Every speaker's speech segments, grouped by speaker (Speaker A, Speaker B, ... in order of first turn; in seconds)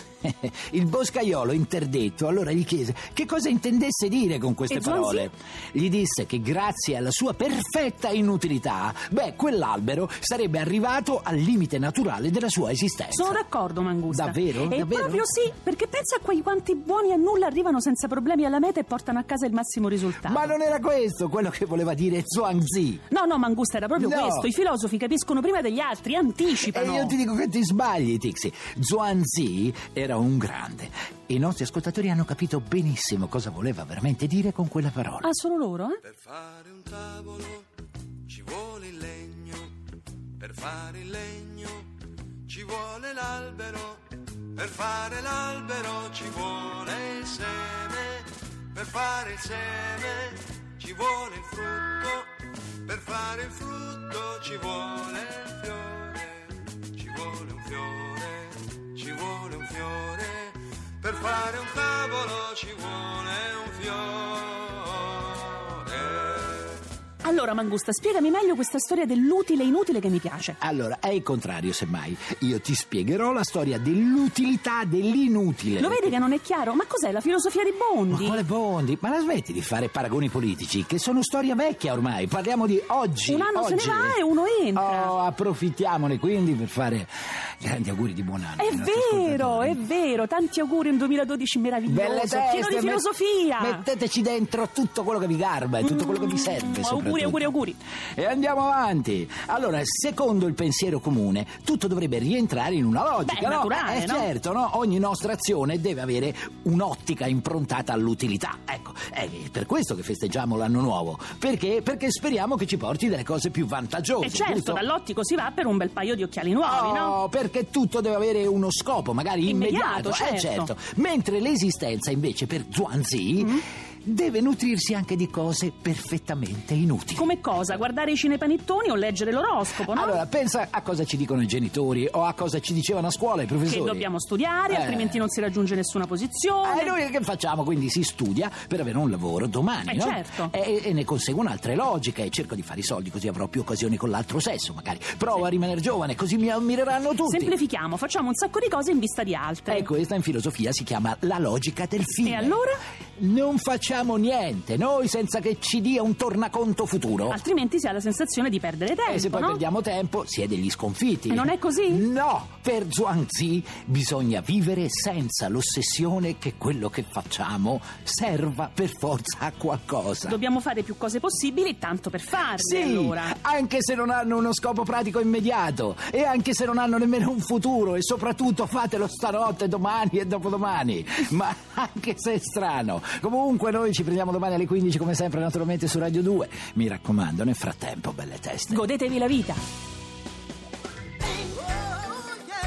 Speaker A: 0.2-13.4, 14.1-15.3, 20.2-23.0, 23.9-24.5, 26.6-35.3, 70.6-76.2, 78.1-84.2, 84.7-89.8, 91.9-97.5, 98.1-114.8, 116.6-127.3, 129.9-134.1, 134.7-135.2, 136.6-147.5, 149.7-152.6, 153.2-157.4, 159.1-170.4, 172.6-188.9
Speaker B: 4.7-5.3, 13.1-20.6, 23.1-27.1, 35.2-36.0, 67.2-70.6, 75.8-78.4, 83.3-85.1, 88.6-93.8, 95.8-97.8, 103.2-104.3, 114.2-117.2, 119.4-120.7, 123.4-123.6, 127.1-130.2, 133.6-136.9, 139.9-140.5, 147.2-149.9, 152.2-152.8, 157.3-159.6, 161.3-162.1, 170.2-173.3, 188.7-189.6
Speaker C: 36.1-37.6, 38.3-39.7, 40.4-41.8, 42.5-44.0, 44.5-52.3, 52.9-66.6